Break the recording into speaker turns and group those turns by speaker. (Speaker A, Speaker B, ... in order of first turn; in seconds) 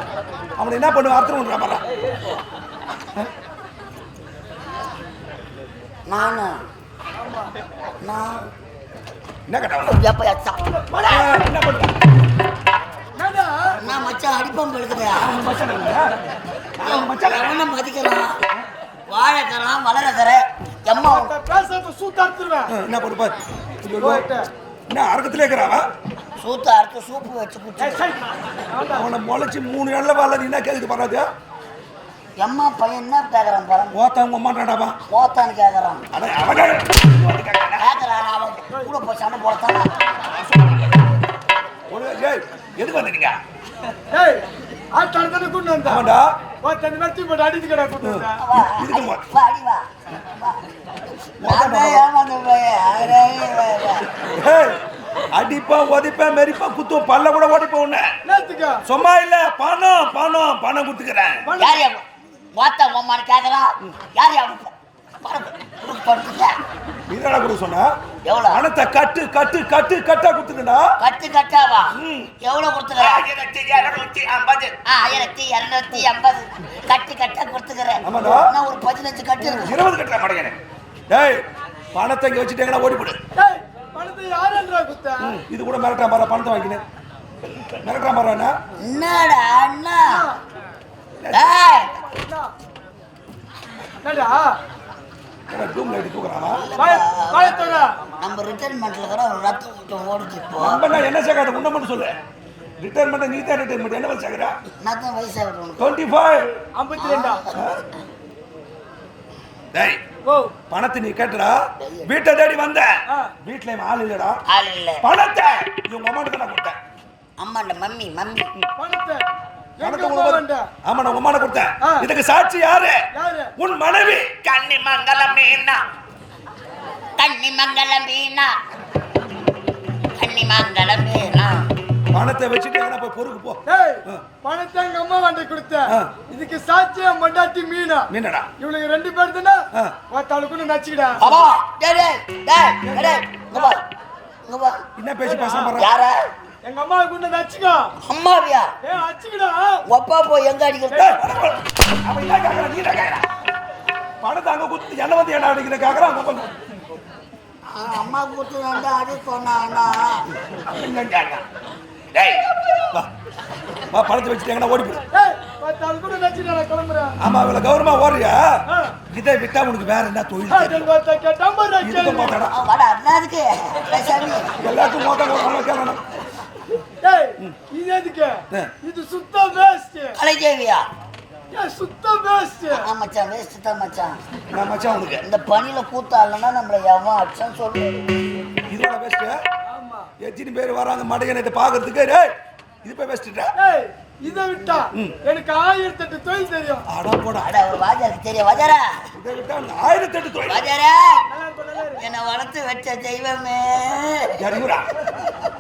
Speaker A: 0.6-1.8, 9.5-10.0, 11.1-11.9, 15.2-16.1, 16.8-17.6, 22.7-24.2, 24.9-25.9, 28.9-31.3, 33.9-35.0, 36.1-37.9, 40.3-41.0, 41.9-43.4, 45.9-46.2, 48.0-49.2, 51.4-52.1, 54.3-54.8, 55.4-58.1, 58.9-61.4, 67.1-67.9, 68.5-70.8, 72.0-72.3, 73.0-74.8, 78.1-78.5, 79.4-80.6, 81.1-83.2, 85.2-86.8, 87.8-88.5, 91.2-91.6, 95.5-96.7, 100.6-102.2, 102.8-104.5, 105.8-106.5, 109.7-110.0, 110.6-112.9, 113.4-114.4, 115.0-116.8, 119.8-123.0, 123.6-125.8, 132.1-134.3, 135.9-136.2, 138.1-138.5, 142.8-143.2, 145.0-145.9, 151.0-153.3, 154.2-156.5, 160.7-161.4, 162.1-163.1, 163.9-165.0, 167.2-168.5, 169.1-170.8, 171.8-172.6, 174.6-176.0, 184.5-185.2, 188.7-189.3, 190.2-192.3, 192.8-193.5, 196.9-197.5, 199.2-200.7, 204.4-204.8
Speaker B: 6.1-6.5, 8.0-8.4, 9.8-10.6, 13.8-15.4, 16.8-18.4, 19.1-21.3, 26.4-28.0, 32.4-34.0, 35.1-36.0, 37.8-39.9, 48.4-50.6, 51.5-54.1, 61.6-66.5, 68.3-68.6, 71.0-73.3, 74.9-79.8, 88.8-90.2, 91.3-91.9, 96.5-100.9, 104.8-106.0, 107.0-107.5, 111.8-112.1, 114.5-115.0, 117.4-118.5, 127.2-128.5, 130.2-131.7, 141.2-143.8, 144.5-144.8, 145.8-146.2, 148.0-148.7, 149.9-151.2, 157.7-160.2, 172.5-174.5, 180.2-180.8, 182.7-184.2, 185.2-188.1, 197.4-198.9, 200.5-201.2, 202.0-204.4
Speaker C: 7.2-7.5, 10.7-11.4, 13.2-13.8, 21.0-22.7, 24.0-24.5, 27.8-29.1, 44.1-44.4, 44.9-46.1, 46.6-48.4, 58.2-58.8, 61.5-61.8, 83.4-85.4, 90.1-90.4, 92.2-92.5, 94.0-94.6, 96.8-97.9, 106.8-107.4, 110.2-110.6, 118.8-119.3, 119.8-120.7, 121.8-122.1, 123.2-123.5, 133.7-141.2, 145.2-145.8, 146.6-147.9, 148.8-149.8, 150.9-151.2, 165.1-167.2, 168.7-169.0, 170.5-172.4, 177.0-180.2, 181.5-182.8, 189.7-190.1, 193.6-196.8, 201.3-202.1